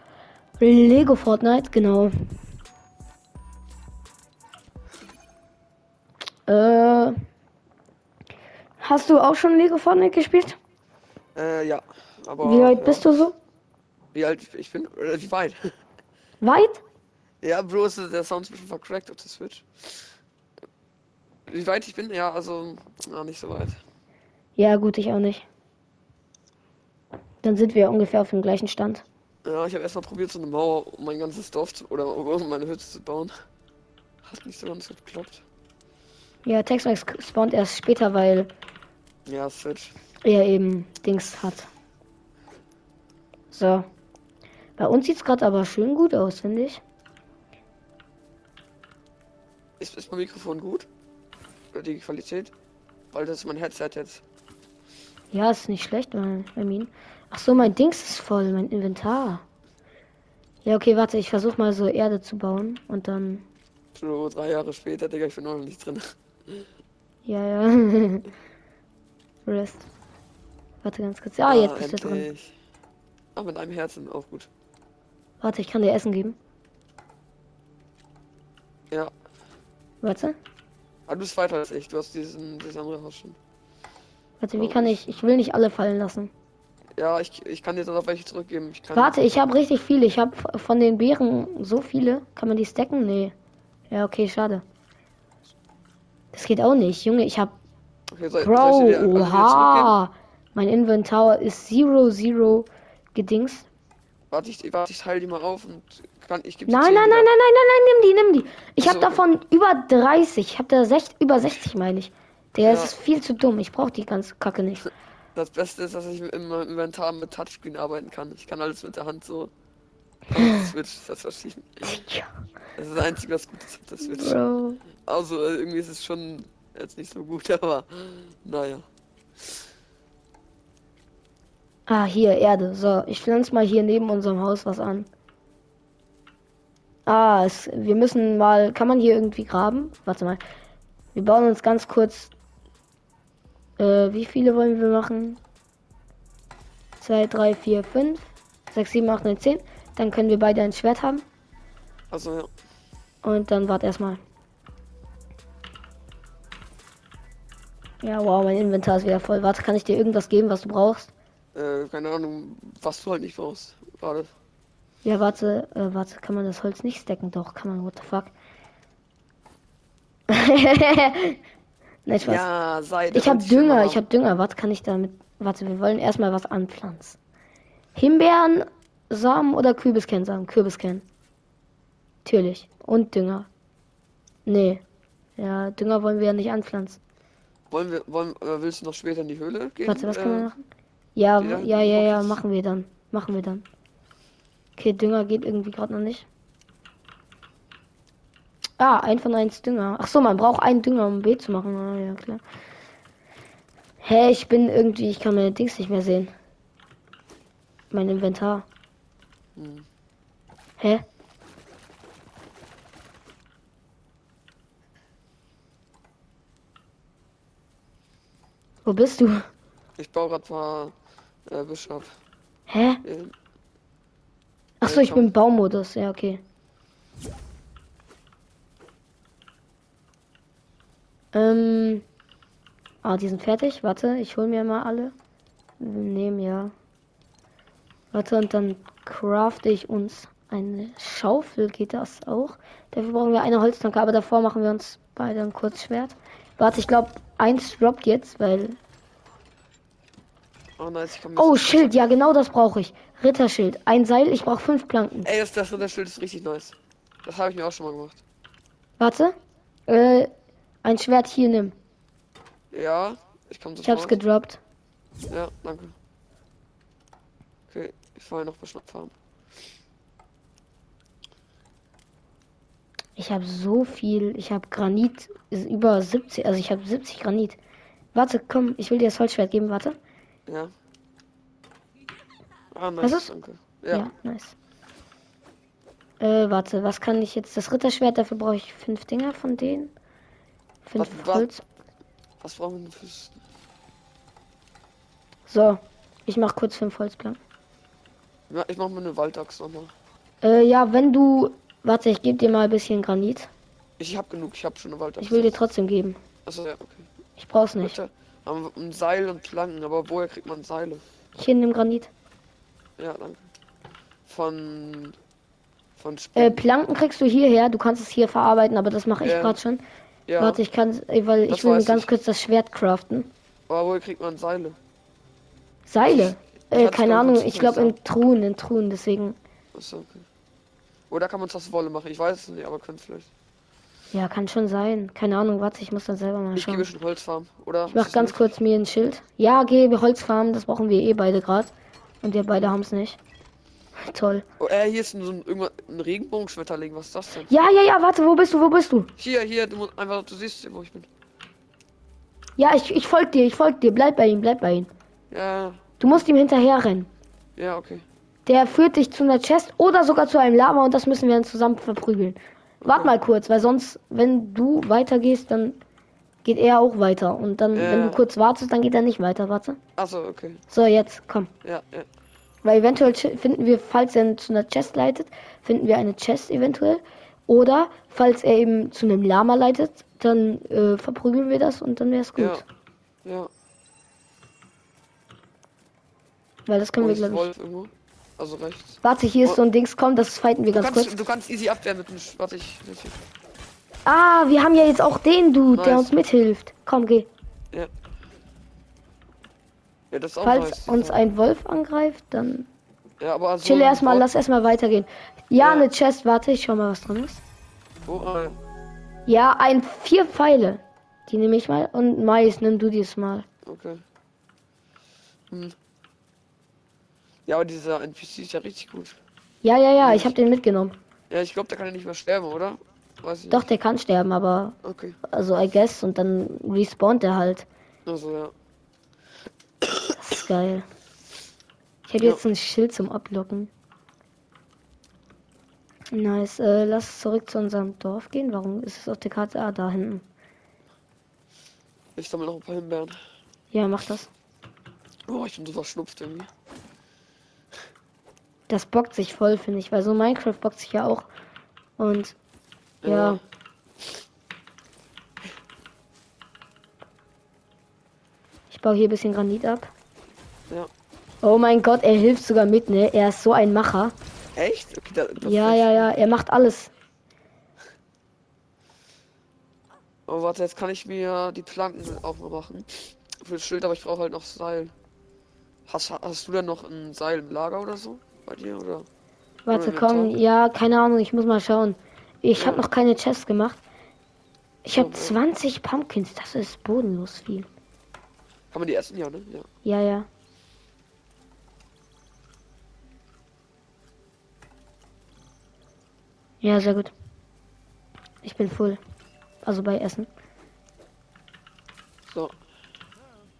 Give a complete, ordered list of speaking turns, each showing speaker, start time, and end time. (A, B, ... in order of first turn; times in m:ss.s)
0:00.6-0:02.1 A
0:06.5-0:07.1 A
0:08.8-0:10.6 A
0:11.3-0:13.0 B
0:12.4-0:13.4 A
0:14.1-0:15.7 B
0:16.4-0:16.8 A
0:17.4-0:20.1 B
0:21.5-0:23.8 B
0:24.6-0:25.4 A
0:27.4-0:29.0 A
0:29.4-0:33.3 B
0:34.2-0:35.4 B
0:36.4-0:38.5 A
0:39.2-0:39.9 B
0:40.2-0:41.7 A
0:43.5-0:43.8 A
0:44.8-0:46.8 A
0:49.8-0:50.9 B
0:51.7-0:52.5 B
0:53.1-0:54.2 B
0:55.3-0:59.4 A
1:00.6-1:03.4 A
1:04.0-1:06.7 B
1:07.2-1:08.3 A
1:09.4-1:09.8 A
1:10.8-1:12.3 A
1:11.4-1:12.5 B
1:13.3-1:14.5 B
1:15.4-1:16.4 A
1:20.0-1:20.4 A
1:21.1-1:23.4 B
1:24.4-1:26.3 A
1:24.6-1:25.0 B
1:27.0-1:29.2 B
1:28.9-1:33.3 A
1:33.9-1:34.6 A
1:36.3-1:37.5 A
1:38.1-1:40.0 B
1:38.4-1:43.7 A
1:44.3-1:47.3 B
1:46.7-1:54.9 A
1:48.8-1:49.2 B
1:52.6-1:52.9 B
1:55.3-1:59.5 B
2:00.3-2:02.0 B
2:00.3-2:00.7 A
2:01.8-2:02.3 A
2:02.8-2:04.4 B
2:04.0-2:04.8 A
2:05.0-2:08.9 B
2:11.9-2:15.1 A
2:17.0-2:20.4 A
2:21.1-2:22.3 A
2:23.8-2:25.4 A
2:27.0-2:31.2 A
2:32.1-2:32.5 B
2:33.2-2:34.2 A
2:38.0-2:41.1 A
2:41.5-2:44.3 B
2:45.0-2:48.3 A
2:50.3-2:51.4 A
2:52.0-2:52.4 A
2:52.2-2:54.0 B
2:53.1-2:57.2 A
2:57.9-3:01.0 A
3:02.2-3:03.5 A
3:04.4-3:04.8 A
3:05.4-3:07.0 A
3:07.7-3:10.5 B
3:09.8-3:10.6 A
3:11.2-3:13.6 A
3:11.4-3:12.4 B
3:14.8-3:16.2 A
3:18.8-3:22.4 A
3:24.0-3:26.3 A
3:27.9-3:28.6 A
3:29.6-3:29.9 B
3:38.8-3:39.5 A
3:40.0-3:40.9 B
3:41.5-3:42.1 B
3:42.7-3:43.0 A
3:43.0-3:43.3 B
3:44.8-3:46.4 A
3:44.8-3:45.3 B
3:51.3-3:52.0 A
3:53.0-3:55.1 A
3:55.8-3:56.7 A
3:58.1-4:08.8 A
4:10.8-4:12.1 B
4:11.4-4:15.3 A
4:15.2-4:18.2 B
4:19.0-4:19.4 A
4:19.9-4:20.3 A
4:20.8-4:21.7 A
4:22.7-4:24.2 B
4:23.8-4:24.6 A
4:25.3-4:25.9 B
4:27.7-4:29.1 B
4:33.2-4:37.6 A
4:38.1-4:40.0 A
4:40.5-4:40.7 B
4:42.7-4:44.1 B
4:43.0-4:43.3 A
4:43.9-4:44.5 A
4:46.2-4:49.9 A
4:50.8-4:51.6 A
4:51.0-4:51.5 B
4:52.4-4:53.4 B
4:55.5-4:57.4 A
4:58.5-4:59.9 B
5:00.4-5:03.5 A
5:04.0-5:05.6 B
5:05.2-5:06.2 A
5:06.4-5:07.1 B
5:07.4-5:08.0 A
5:07.8-5:11.0 B
5:11.4-5:12.1 A
5:13.0-5:13.5 B
5:14.2-5:15.2 B
5:16.0-5:16.6 B
5:16.4-5:19.8 A
5:19.2-5:19.6 B
5:20.3-5:20.6 B
5:20.4-5:23.3 A
5:21.5-5:22.1 B
5:23.7-5:24.8 B
5:25.9-5:29.4 A
5:26.0-5:28.0 B
5:29.7-5:30.2 B
5:31.1-5:33.3 B
5:34.1-5:36.9 A
5:36.5-5:38.5 B
5:37.9-5:43.2 A
5:44.0-5:44.4 A
5:44.6-5:47.5 B
5:47.5-5:49.1 A
5:49.2-5:51.1 B
5:52.6-5:54.9 A
5:55.3-5:55.9 B
5:56.0-5:57.1 A
5:57.6-5:58.0 B
5:58.4-6:05.8 A
6:02.8-6:03.1 B
6:06.4-6:09.8 A
6:07.7-6:08.2 B
6:10.0-6:10.6 B
6:10.7-6:11.5 A
6:11.6-6:12.1 B
6:12.6-6:22.6 A
6:22.4-6:22.6 B
6:23.2-6:23.5 B
6:26.7-6:27.5 A
6:27.0-6:29.6 B
6:29.0-6:31.2 A
6:30.7-6:33.2 B
6:34.0-6:37.3 A
6:35.7-6:36.2 B
6:40.1-6:41.2 B
6:40.4-6:42.7 A
6:43.2-6:44.3 B
6:43.6-6:47.4 A
6:45.6-6:45.9 B
6:48.0-6:48.6 B
6:49.3-6:53.4 A
6:53.6-6:54.0 B
6:55.5-6:55.8 B
6:57.4-6:59.2 B
6:59.6-7:01.0 A
7:00.0-7:00.4 B
7:01.3-7:03.6 B
7:03.5-7:07.6 A
7:04.8-7:05.2 B
7:08.0-7:08.5 B
7:09.8-7:10.1 B
7:10.1-7:10.8 A
7:12.1-7:13.7 A
7:16.1-7:20.2 A
7:22.2-7:23.2 B
7:23.7-7:24.3 A
7:25.3-7:26.5 B
7:28.7-7:31.3 A
7:32.0-7:32.4 A
7:33.0-7:33.4 B
7:33.0-7:33.4 A
7:38.7-7:39.9 A
7:41.4-7:44.1 A
7:44.5-7:46.1 B
7:45.4-7:46.9 A
7:50.3-7:54.9 B
7:55.9-7:59.1 B
7:59.6-8:03.8 A
7:59.7-8:00.3 B
8:02.6-8:02.8 B
8:04.8-8:07.7 A
8:04.9-8:05.4 B
8:08.7-8:09.7 B
8:09.8-8:10.3 A
8:16.6-8:17.1 A
8:18.4-8:19.0 A
8:19.6-8:20.3 A
8:22.2-8:22.5 B